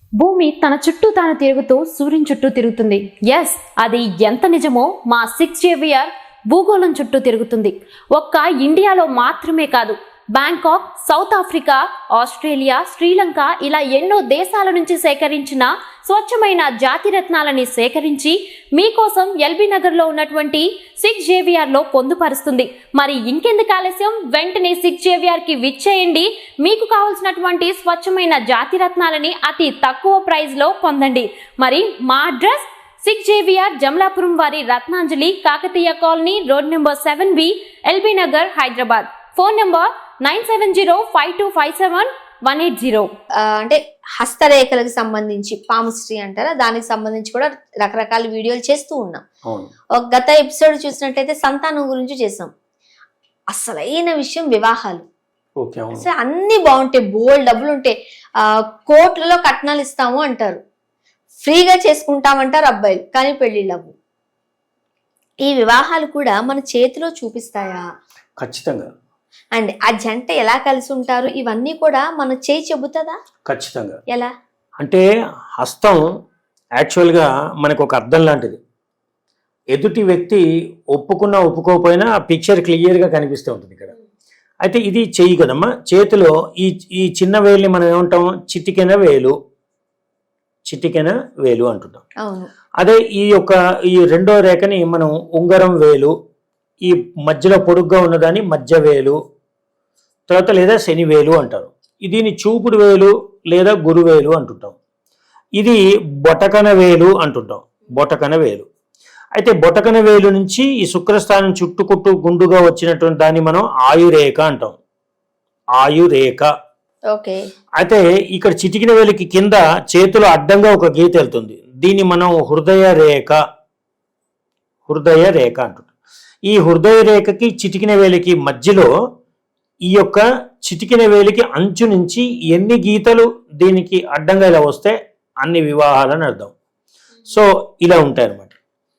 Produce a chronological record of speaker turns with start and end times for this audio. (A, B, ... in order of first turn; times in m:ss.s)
0:00.2-0:43.1 A
0:43.4-0:49.2 B
0:50.0-0:52.5 B
0:53.5-0:55.0 B
0:55.6-0:56.0 C
0:56.0-1:00.6 B
1:01.4-1:03.9 B
1:05.4-1:07.8 B
1:08.4-1:08.9 C
1:09.5-1:13.2 B
1:13.5-1:14.0 C
1:15.6-1:16.0 C
1:16.8-1:18.6 C
1:19.7-1:20.4 C
1:20.9-1:23.9 C
1:24.6-1:29.3 C
1:30.7-1:32.0 C
1:32.2-1:32.5 B
1:32.8-1:36.1 C
1:36.8-1:39.2 C
1:40.3-1:44.7 C
1:45.6-1:48.7 C
1:49.4-1:54.8 C
1:55.8-1:56.5 C
1:57.1-1:57.4 B
1:57.8-2:03.4 C
2:04.9-2:05.9 C
2:06.5-2:08.9 C
2:09.9-2:16.5 C
2:17.3-2:18.5 C